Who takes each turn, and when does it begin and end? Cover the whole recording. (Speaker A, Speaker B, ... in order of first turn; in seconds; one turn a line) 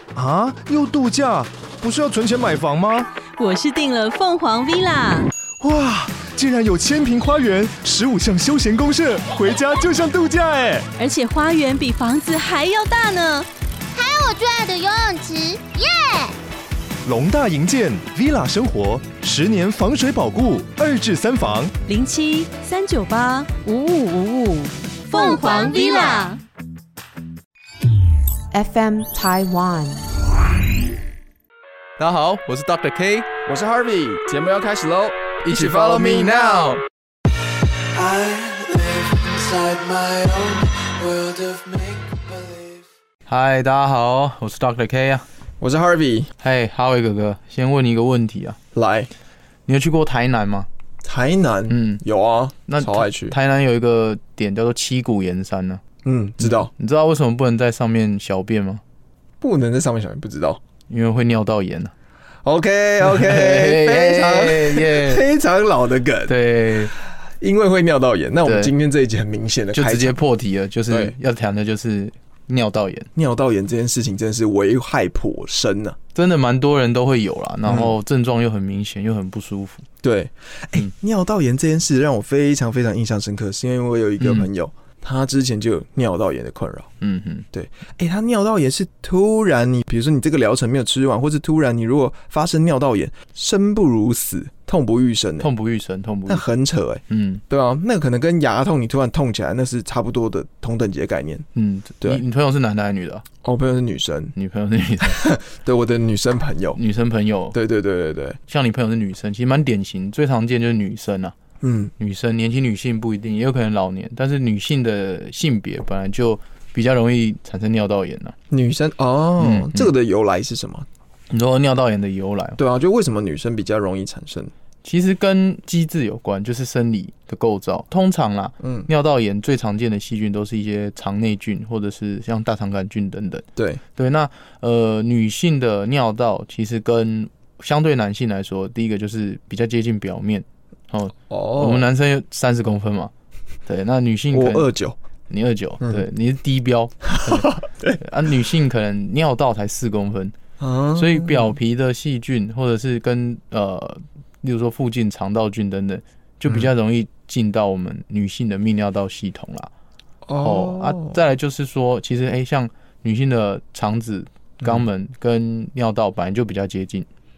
Speaker A: 0.1-3.1
Speaker B: 3.4-5.3
Speaker A: 5.6-10.9
Speaker B: 11.0-13.5
Speaker C: 13.9-16.3
Speaker A: 17.0-21.7
Speaker B: 21.9-26.4
Speaker C: 25.2-26.3
Speaker C: 28.5-30.0
Speaker D: 32.0-33.3
Speaker E: 33.5-36.6
Speaker D: 35.4-36.8
Speaker F: 38.0-42.7
Speaker D: 43.2-45.2
Speaker E: 45.6-46.3
Speaker D: 46.4-48.6
Speaker E: 48.7-49.1
Speaker D: 49.6-50.7
Speaker E: 51.0-53.4
Speaker D: 51.7-52.0
Speaker D: 52.7-55.8
Speaker E: 56.0-56.7
Speaker D: 56.4-58.8
Speaker E: 59.4-60.6
Speaker D: 60.9-61.9
Speaker E: 62.4-70.2
Speaker D: 63.0-65.2
Speaker D: 66.2-66.9
Speaker D: 68.4-68.7
Speaker D: 69.7-73.1
Speaker E: 70.9-71.2
Speaker E: 73.2-76.0
Speaker D: 76.1-79.8
Speaker E: 77.7-77.9
Speaker E: 80.0-86.9
Speaker D: 84.2-84.5
Speaker D: 87.0-87.5
Speaker E: 87.5-95.5
Speaker D: 95.4-96.4
Speaker E: 96.3-101.4
Speaker D: 97.1-97.4
Speaker D: 101.5-103.2
Speaker E: 103.4-104.3
Speaker D: 104.3-105.2
Speaker E: 105.1-106.8
Speaker D: 106.8-107.6
Speaker E: 107.5-108.4
Speaker D: 108.5-111.3
Speaker E: 111.6-111.9
Speaker D: 112.0-118.3
Speaker E: 118.5-120.9
Speaker D: 119.4-119.9
Speaker D: 121.3-122.6
Speaker E: 122.6-124.5
Speaker D: 124.8-143.1
Speaker E: 128.6-128.9
Speaker E: 133.6-133.8
Speaker E: 141.3-141.9
Speaker D: 143.7-144.7
Speaker E: 144.3-145.0
Speaker D: 145.3-150.3
Speaker E: 147.3-148.0
Speaker E: 150.6-151.6
Speaker D: 150.9-159.7
Speaker E: 160.2-161.2
Speaker D: 160.4-167.1